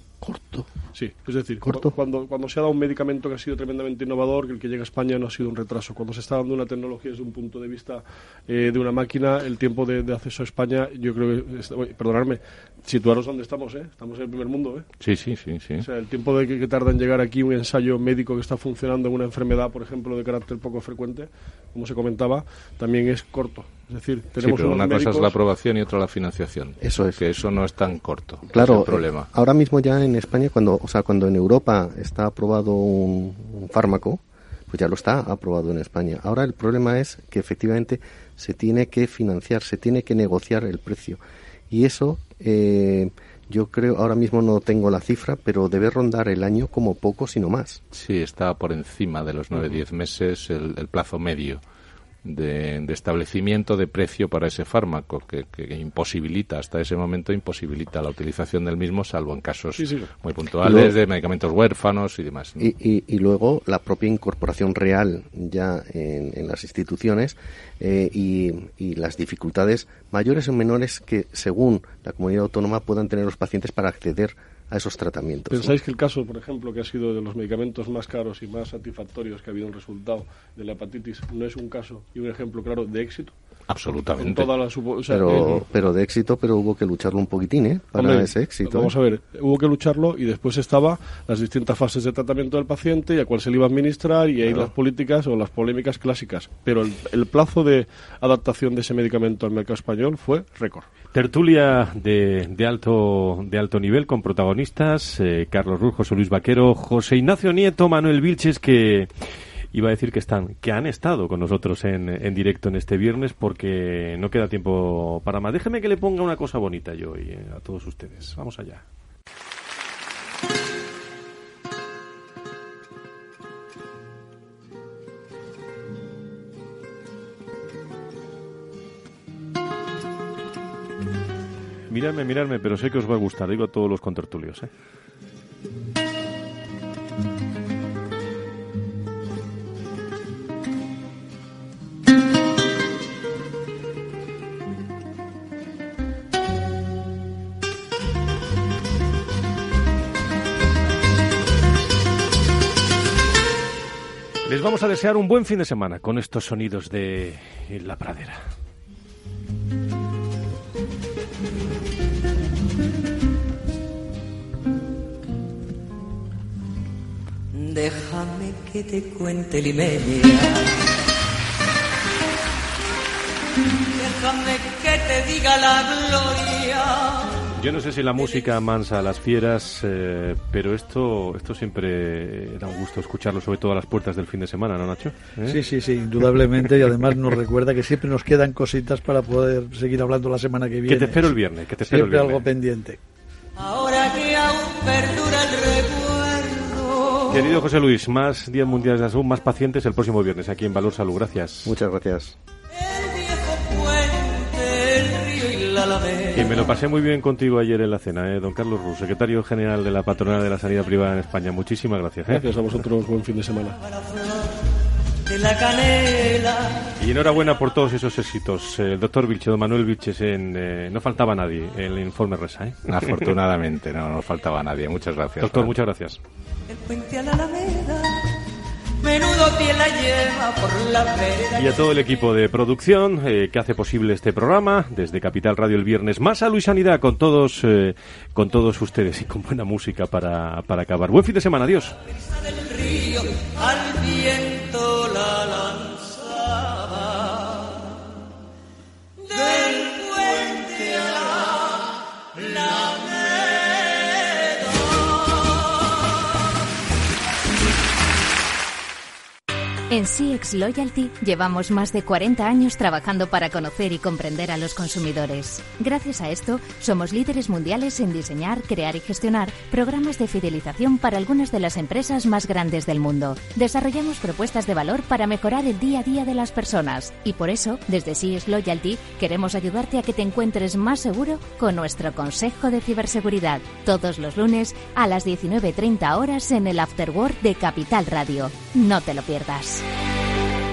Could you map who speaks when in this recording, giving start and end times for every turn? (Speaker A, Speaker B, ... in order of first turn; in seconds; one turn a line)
Speaker A: 0.2-0.7
Speaker B: 0.9-14.9
Speaker A: 1.6-1.9
Speaker C: 15.0-15.9
Speaker B: 15.8-25.3
Speaker C: 24.4-29.3
Speaker A: 26.8-27.2
Speaker A: 28.5-47.8
Speaker C: 47.9-51.6
Speaker C: 52.2-62.6
Speaker B: 59.8-60.1
Speaker A: 60.6-60.9
Speaker A: 62.6-75.7
Speaker B: 75.5-83.3
Speaker C: 83.7-84.5
Speaker B: 84.2-85.6
Speaker A: 85.1-88.9
Speaker B: 87.9-100.9
Speaker A: 94.4-94.7
Speaker D: 101.1-109.1
Speaker D: 109.7-118.8
Speaker D: 131.9-134.7
Speaker D: 154.4-158.4
Speaker E: 167.5-170.8
Speaker E: 173.9-177.3
Speaker D: 177.6-185.6
Speaker F: 185.4-193.0
Speaker D: 190.8-192.4
Speaker E: 193.6-197.4
Speaker D: 197.3-201.8
Speaker A: 201.6-202.3
Speaker E: 202.9-206.6
Speaker D: 206.3-212.4
Speaker B: 212.3-213.8
Speaker E: 214.0-214.5
Speaker E: 215.2-216.9
Speaker D: 217.0-223.3
Speaker C: 222.9-225.7
Speaker D: 225.4-226.2
Speaker E: 226.7-228.3
Speaker E: 229.0-231.9
Speaker D: 231.5-242.0
Speaker E: 242.5-247.2
Speaker E: 249.2-251.8
Speaker E: 252.3-254.0
Speaker G: 259.9-289.8